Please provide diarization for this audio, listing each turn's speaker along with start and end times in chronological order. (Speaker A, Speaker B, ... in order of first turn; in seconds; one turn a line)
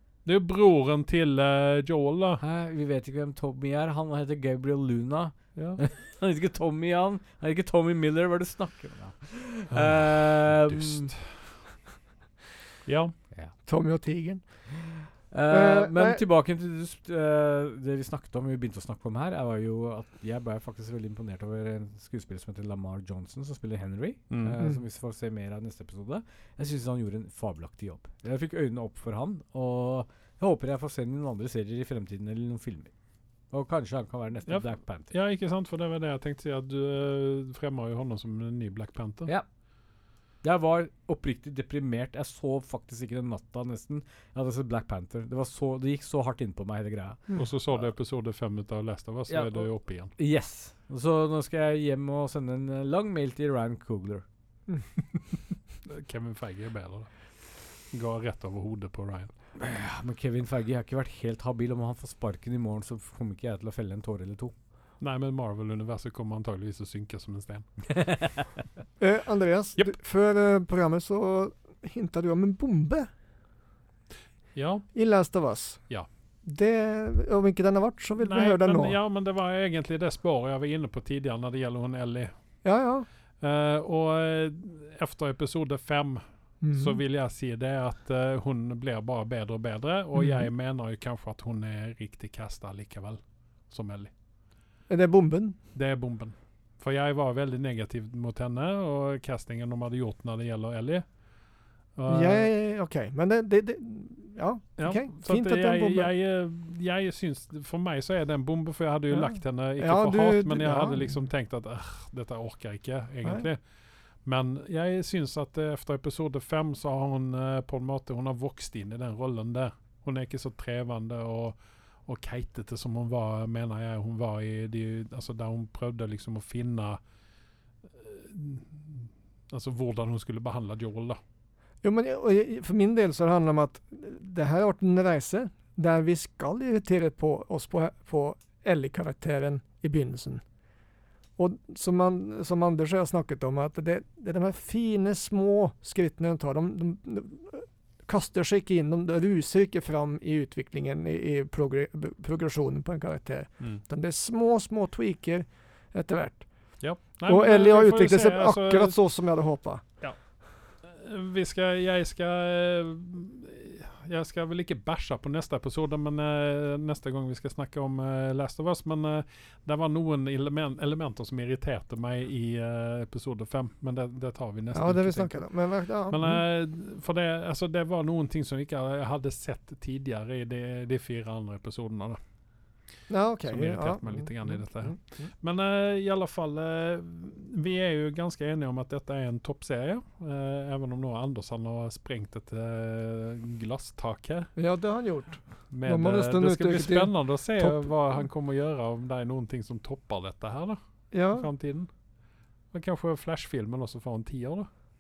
Speaker A: 0.2-2.4
Speaker B: 2.4-11.1
Speaker A: 5.6-5.8
Speaker A: 9.7-11.2
Speaker A: 12.8-13.1
Speaker C: 13.7-14.4
Speaker B: 15.3-32.9
Speaker C: 15.5-16.2
Speaker A: 24.3-24.6
Speaker B: 33.5-35.1
Speaker A: 34.5-39.3
Speaker B: 40.4-47.3
Speaker A: 47.4-50.1
Speaker B: 49.3-54.2
Speaker A: 55.8-57.1
Speaker A: 57.9-59.3
Speaker B: 59.6-64.5
Speaker A: 65.0-67.9
Speaker C: 69.0-73.1
Speaker A: 74.5-74.9
Speaker C: 75.0-75.8
Speaker C: 76.4-79.0
Speaker A: 78.2-82.3
Speaker C: 82.6-83.1
Speaker A: 83.4-86.2
Speaker C: 86.6-87.0
Speaker A: 86.7-94.1
Speaker C: 90.2-90.5
Speaker C: 94.9-95.6
Speaker A: 95.8-101.0
Speaker A: 102.0-102.5
Speaker C: 102.1-106.1
Speaker A: 104.8-113.6
Speaker C: 109.1-111.1
Speaker A: 114.2-127.0
Speaker A: 127.9-131.2
Speaker C: 131.8-140.4
Speaker C: 141.4-156.4
Speaker A: 156.8-159.0
Speaker C: 157.3-159.8
Speaker A: 160.8-175.4
Speaker C: 174.7-176.4
Speaker A: 176.1-182.2
Speaker C: 183.1-185.3
Speaker A: 183.5-194.5
Speaker C: 194.6-197.9
Speaker A: 195.7-200.8
Speaker C: 201.1-201.5
Speaker A: 201.3-201.9
Speaker A: 202.7-204.7